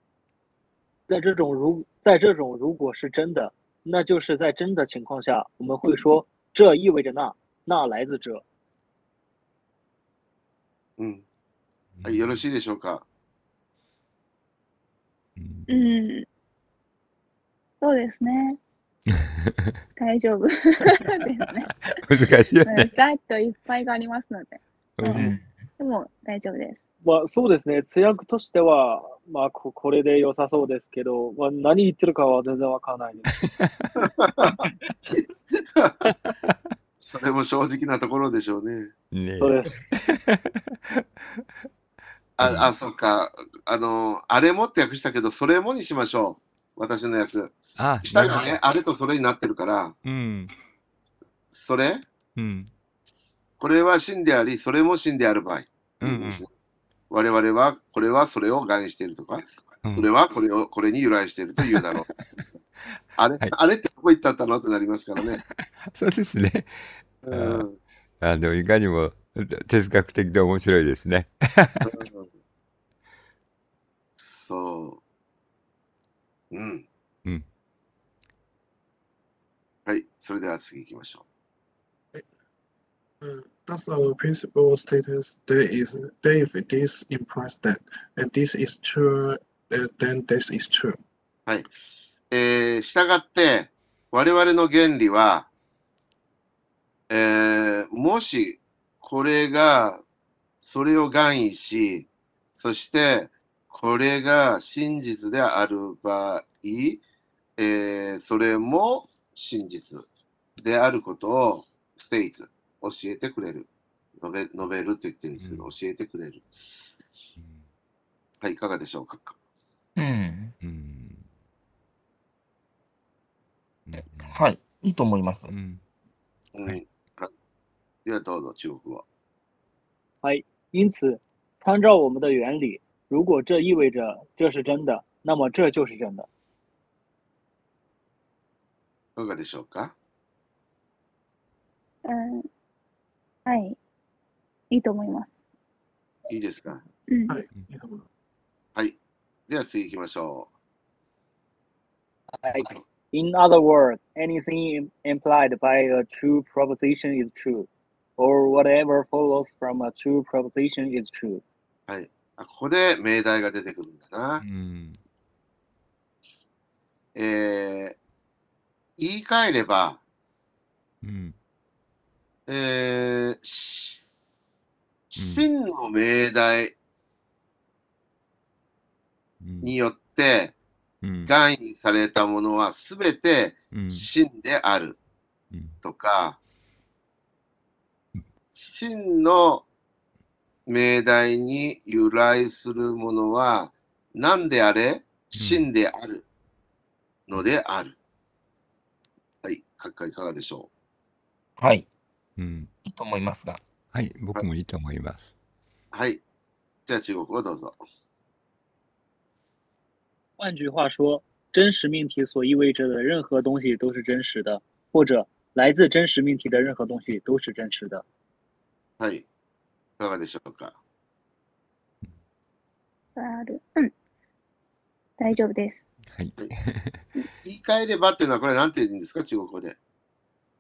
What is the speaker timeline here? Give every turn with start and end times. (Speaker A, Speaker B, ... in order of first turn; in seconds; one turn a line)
Speaker A: 1.1-8.4
Speaker B: 11.0-11.2
Speaker C: 12.0-12.4
Speaker B: 12.0-13.1
Speaker C: 15.4-15.8
Speaker D: 15.7-16.3
Speaker D: 17.8-18.6
Speaker C: 19.2-19.8
Speaker D: 20.0-21.7
Speaker C: 21.9-22.9
Speaker D: 22.7-26.8
Speaker C: 25.0-25.3
Speaker E: 25.1-25.5
Speaker A: 27.0-33.4
Speaker C: 33.4-33.9
Speaker B: 34.0-36.1
Speaker C: 36.3-36.5
Speaker B: 37.0-38.9
Speaker C: 39.1-41.5
Speaker A: 39.4-39.7
Speaker B: 42.4-50.0
Speaker C: 42.4-42.7
Speaker C: 47.8-48.6
Speaker C: 50.0-50.5
Speaker B: 51.5-52.0
Speaker C: 52.4-52.7
Speaker B: 53.6-56.5
Speaker C: 56.0-56.4
Speaker B: 57.1-62.6
Speaker C: 59.8-60.1
Speaker C: 61.6-62.1
Speaker B: 63.2-65.4
Speaker C: 65.2-67.7
Speaker B: 67.2-67.8
Speaker C: 68.2-72.0
Speaker B: 71.8-72.3
Speaker B: 74.2-75.0
Speaker B: 76.5-76.8
Speaker B: 79.9-81.2
Speaker F: 83.2-91.0
Speaker B: 91.5-91.7
Speaker B: 92.3-95.5
Speaker B: 97.1-100.0
Speaker B: 100.6-107.0
Speaker B: 107.6-110.0
Speaker B: 110.6-113.7
Speaker B: 114.2-116.5
Speaker C: 115.4-115.7
Speaker C: 117.4-117.7
Speaker B: 118.4-119.4
Speaker E: 120.0-120.5
Speaker C: 120.6-121.3
Speaker C: 123.9-124.4
Speaker E: 124.2-125.5
Speaker C: 125.5-125.8
Speaker B: 126.5-127.3
Speaker B: 128.1-129.1
Speaker A: 130.2-136.3
Speaker B: 139.2-139.9
Speaker D: 142.1-142.5
Speaker D: 143.5-143.8
Speaker D: 144.7-145.3
Speaker B: 146.3-146.8
Speaker D: 147.1-147.3
Speaker F: 147.3-148.1
Speaker B: 149.5-150.5
Speaker A: 152.4-161.4
Speaker B: 161.9-164.4
Speaker C: 164.4-165.0
Speaker B: 167.2-168.0
Speaker B: 169.0-170.0
Speaker C: 171.0-171.3
Speaker B: 172.5-174.0
Speaker B: 175.1-176.8
Speaker C: 175.2-175.5
Speaker C: 179.4-179.7
Speaker B: 179.6-180.6
Speaker C: 181.0-181.3
Speaker B: 181.3-185.0
Speaker C: 183.7-184.1
Speaker C: 185.5-185.8
Speaker B: 185.8-186.4
Speaker B: 188.5-189.7
Speaker B: 190.7-196.2
Speaker C: 195.3-195.7
Speaker B: 197.3-198.0
Speaker B: 199.4-200.7
Speaker E: 201.6-201.9
Speaker C: 202.4-202.7
Speaker E: 202.8-203.6
Speaker C: 203.9-205.3
Speaker B: 205.9-206.2
Speaker B: 206.9-207.8
Speaker A: 210.4-218.0
Speaker B: 219.0-219.3
Speaker B: 220.0-220.8
Speaker D: 223.2-223.9
Speaker D: 225.2-225.9
Speaker C: 226.1-227.1
Speaker B: 227.4-229.8